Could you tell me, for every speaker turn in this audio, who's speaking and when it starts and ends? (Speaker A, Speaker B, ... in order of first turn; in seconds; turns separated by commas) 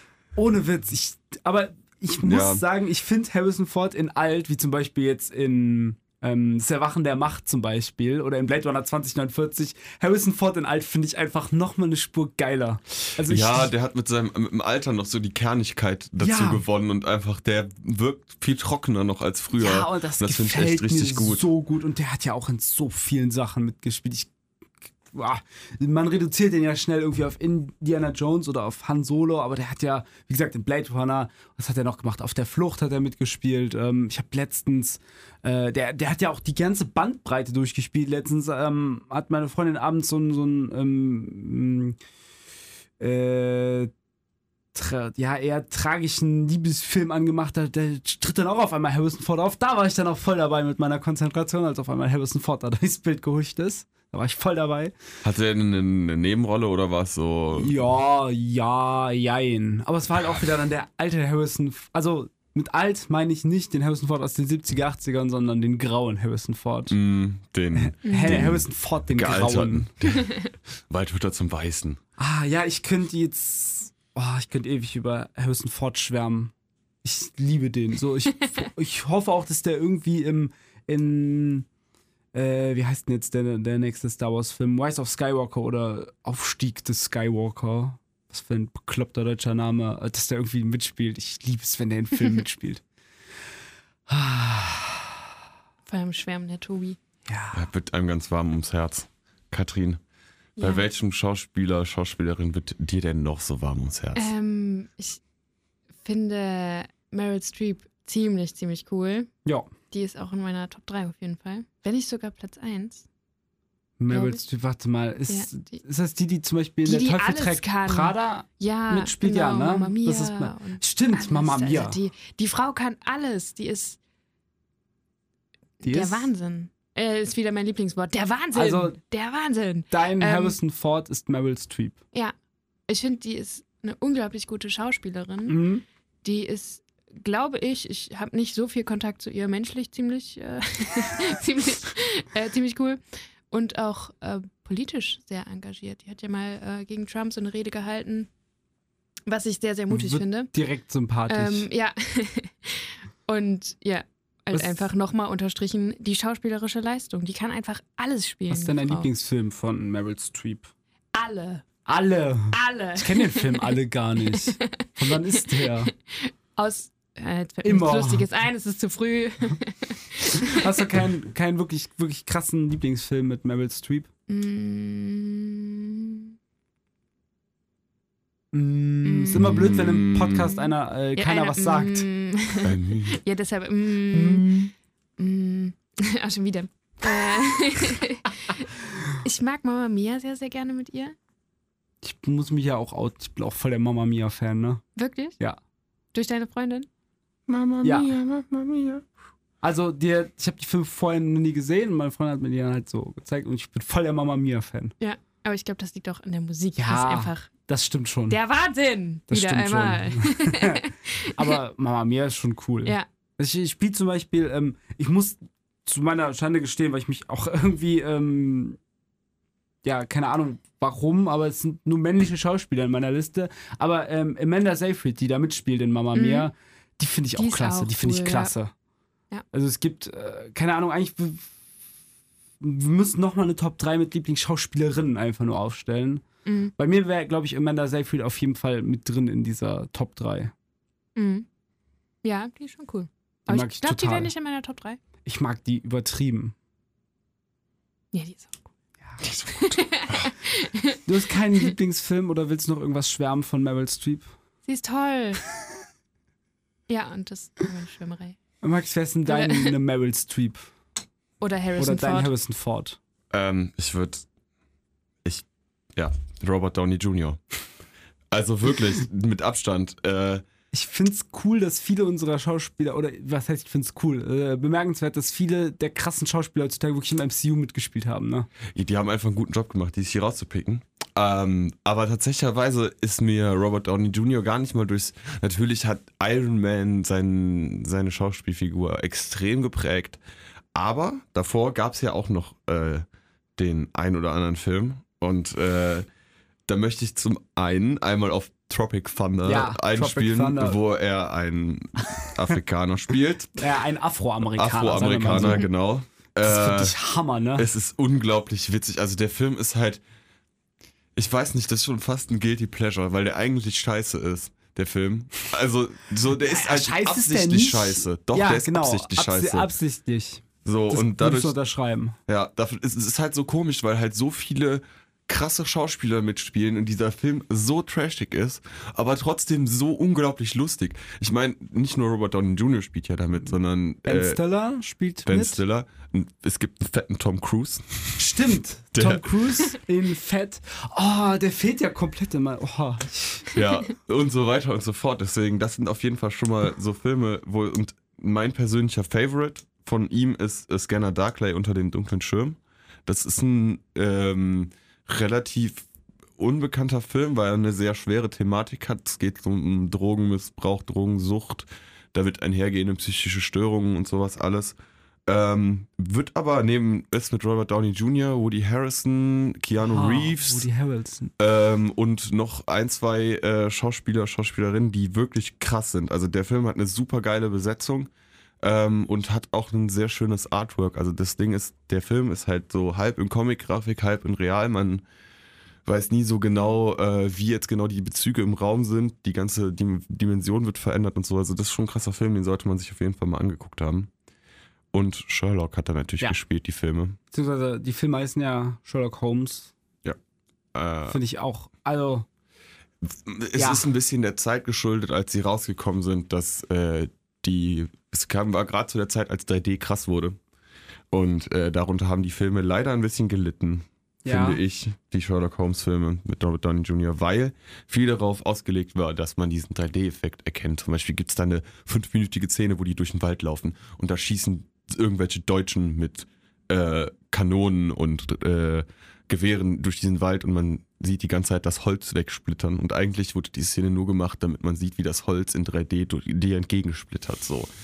Speaker A: 0.3-13.7, Speaker B: 2.2-2.6, Speaker B: 13.2-21.4, Speaker A: 16.2-16.6, Speaker A: 19.6-24.3, Speaker A: 25.1-42.0, Speaker A: 43.0-43.9, Speaker A: 44.7-54.9, Speaker B: 55.2-57.7, Speaker A: 57.5-67.0, Speaker B: 66.9-72.0, Speaker A: 67.8-69.9, Speaker C: 68.0-68.5, Speaker C: 70.1-70.5, Speaker A: 72.2-76.5, Speaker A: 77.0-81.7, Speaker A: 82.3-92.8, Speaker A: 94.1-95.2, Speaker C: 95.9-97.0, Speaker A: 97.3-97.7, Speaker B: 97.5-100.0, Speaker C: 100.6-100.8, Speaker B: 100.6-104.3, Speaker C: 104.1-105.2, Speaker C: 106.0-109.3, Speaker C: 109.9-113.0, Speaker A: 114.0-122.0, Speaker C: 114.1-114.5, Speaker C: 115.3-115.7, Speaker C: 116.8-124.0, Speaker C: 125.8-130.6, Speaker A: 125.8-126.3, Speaker A: 128.5-129.0, Speaker A: 129.9-132.0, Speaker C: 132.9-135.6, Speaker A: 135.5-135.8, Speaker C: 136.2-143.0, Speaker C: 143.5-148.3, Speaker C: 149.3-150.5, Speaker A: 149.9-151.7, Speaker C: 151.3-159.1, Speaker A: 154.5-154.8, Speaker A: 158.5-160.7, Speaker C: 161.1-161.6, Speaker A: 161.8-165.9, Speaker C: 162.5-170.7, Speaker A: 167.6-168.3, Speaker A: 170.3-174.1, Speaker C: 174.3-176.3, Speaker A: 178.5-182.1, Speaker C: 179.0-179.7, Speaker B: 179.3-180.5, Speaker C: 180.5-184.6, Speaker B: 182.6-183.2, Speaker A: 184.1-184.7, Speaker C: 185.2-191.2, Speaker A: 192.0-194.8, Speaker C: 194.9-195.4, Speaker C: 196.1-196.9, Speaker B: 197.5-199.0, Speaker A: 197.8-198.1, Speaker A: 199.6-204.9, Speaker C: 205.0-207.5, Speaker A: 206.8-208.4, Speaker C: 208.3-211.6, Speaker A: 209.3-218.8, Speaker A: 219.8-228.7, Speaker C: 226.1-226.5, Speaker C: 227.3-228.5, Speaker A: 229.5-231.5, Speaker A: 232.6-236.2, Speaker C: 236.4-236.7, Speaker A: 236.8-240.5, Speaker C: 241.2-241.4, Speaker C: 242.2-245.0, Speaker A: 243.5-244.3, Speaker A: 245.2-246.5, Speaker C: 248.1-248.7, Speaker B: 249.2-250.3, Speaker C: 249.5-251.0, Speaker A: 251.1-254.3, Speaker C: 254.7-255.4, Speaker C: 256.9-258.4, Speaker A: 258.6-260.7, Speaker C: 259.3-259.8, Speaker C: 261.4-262.3, Speaker A: 261.8-263.0, Speaker B: 263.3-264.2, Speaker B: 265.2-267.4, Speaker B: 268.3-270.4, Speaker A: 270.7-278.5, Speaker B: 278.7-290.2, Speaker B: 290.7-293.0, Speaker B: 293.6-296.1, Speaker B: 296.7-303.6, Speaker A: 299.4-300.8, Speaker A: 303.6-305.7, Speaker B: 304.5-306.9, Speaker A: 306.4-307.7, Speaker B: 307.6-310.0, Speaker B: 311.1-319.7, Speaker A: 316.4-322.1, Speaker B: 320.6-321.6, Speaker B: 322.3-334.4, Speaker A: 334.0-335.6, Speaker B: 335.2-338.3, Speaker A: 338.2-343.5, Speaker B: 338.9-339.7, Speaker B: 343.5-355.8, Speaker B: 356.4-370.7, Speaker A: 369.8-371.3, Speaker B: 371.4-378.1, Speaker B: 378.6-385.0, Speaker B: 385.8-394.1, Speaker B: 394.9-397.2, Speaker A: 397.3-399.7, Speaker B: 400.7-401.2, Speaker A: 401.1-402.2, Speaker B: 403.0-410.4, Speaker A: 403.6-403.8, Speaker B: 411.1-437.7, Speaker A: 414.2-414.6